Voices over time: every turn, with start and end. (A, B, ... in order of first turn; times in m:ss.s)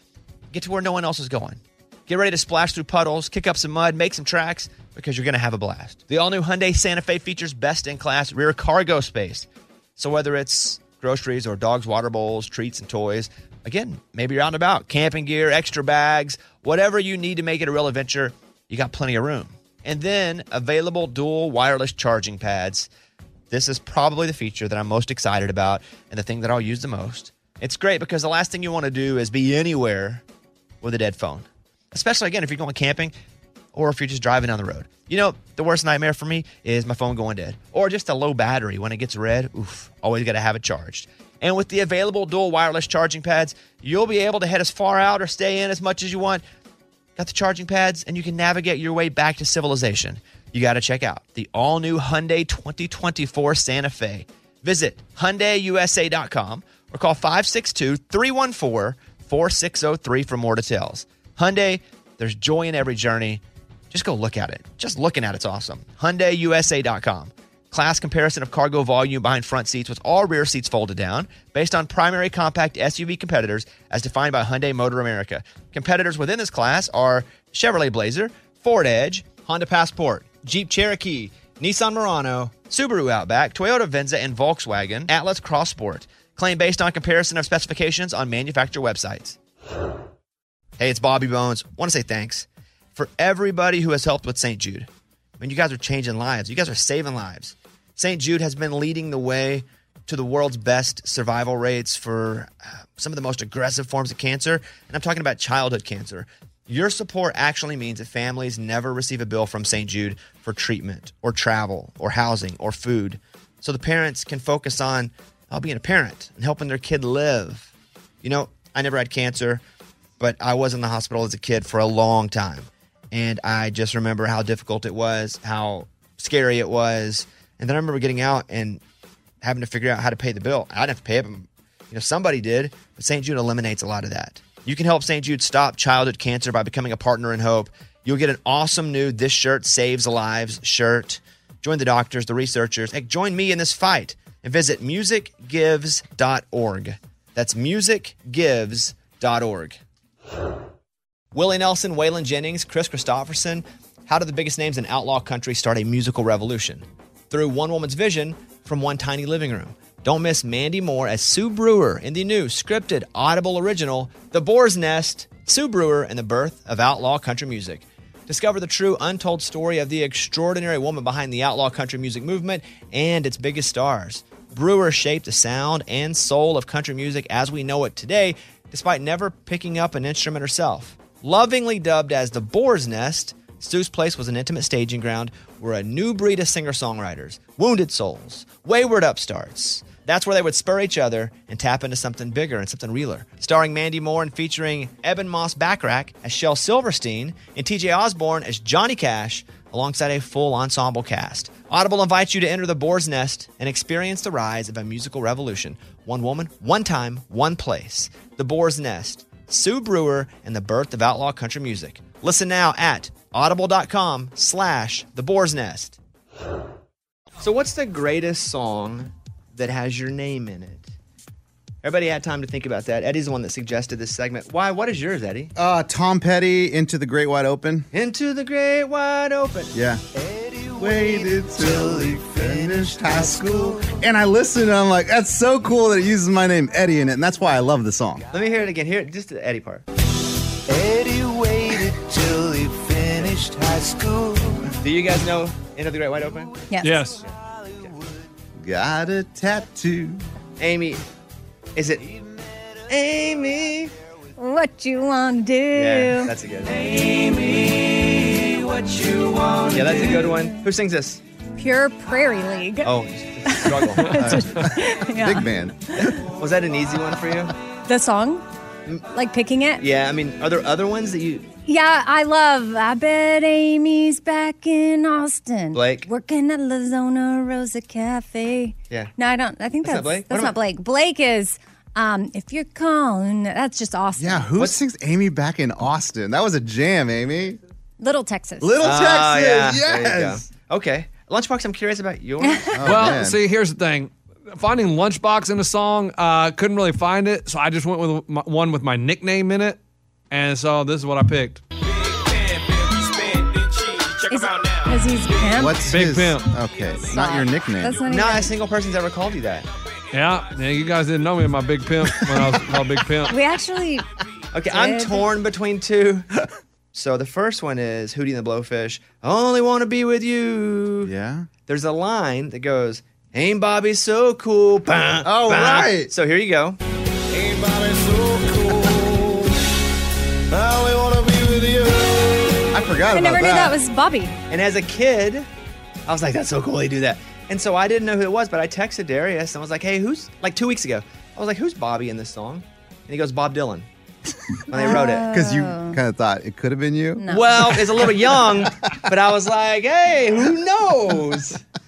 0:00.5-0:22.9 A
0:23.5-0:30.2 A
0:30.8-0:33.1 A
0:33.7-0:46.4 A
0:47.2-1:29.4 A
1:30.8-1:34.9 A
1:35.4-1:57.7 A
1:58.2-1:59.6 A
2:00.2-2:08.8 A
2:09.4-2:29.8 A
2:31.3-3:36.0 A
3:37.4-3:40.9 A
3:41.8-3:45.5 A
3:45.6-3:47.9 B
3:47.9-3:49.7 A
3:49.7-3:50.0 B
3:50.3-3:53.9 C
3:50.7-3:58.2 B
3:58.3-3:59.8 A
4:00.7-4:04.7 C
4:04.8-4:06.5 A
4:06.7-4:07.1 D
4:06.8-4:07.2 E
4:08.6-4:10.2 B
4:10.6-4:11.0 A
4:11.8-4:12.0 A
4:12.9-4:13.9 A
4:14.4-4:16.3 D
4:15.7-4:16.9 A
4:16.7-4:20.3 C
4:19.7-4:21.2 A
4:21.6-4:22.9 D
4:22.8-4:24.2 A
4:23.5-4:25.5 D
4:24.2-4:26.1 B
4:26.0-4:27.5 A
4:27.9-4:28.4 D
4:29.1-4:29.8 D
4:29.8-4:31.5 A
4:31.6-4:44.5 D
4:35.7-4:36.1 A
4:39.8-4:40.5 A
4:44.2-4:47.6 B
4:48.0-4:48.9 D
4:48.6-4:50.4 B
4:48.8-4:52.7 A
4:52.4-4:52.9 D
4:52.7-4:53.4 B
4:52.8-4:59.8 E
5:00.3-5:01.6 E
5:04.3-5:05.8 D
5:05.5-5:08.0 B
5:05.8-5:06.5 E
5:07.0-5:08.5 D
5:08.1-5:09.7 A
5:10.1-5:13.3 E
5:13.3-5:14.0 D
5:14.5-5:16.3 A
5:14.7-5:15.3 D
5:16.9-5:21.1 A
5:21.0-5:21.5 B
5:21.7-5:26.8 A
5:25.2-5:26.1 B
5:27.3-5:29.5 C
5:30.5-5:32.3 C
5:32.7-5:33.8 B
5:33.1-5:34.4 D
5:34.5-5:35.5 A
5:36.1-5:43.8 A
5:44.7-5:45.3 A
5:44.7-5:46.0 D
5:45.2-5:48.1 B
5:47.2-5:47.6 D
5:47.3-5:51.6 A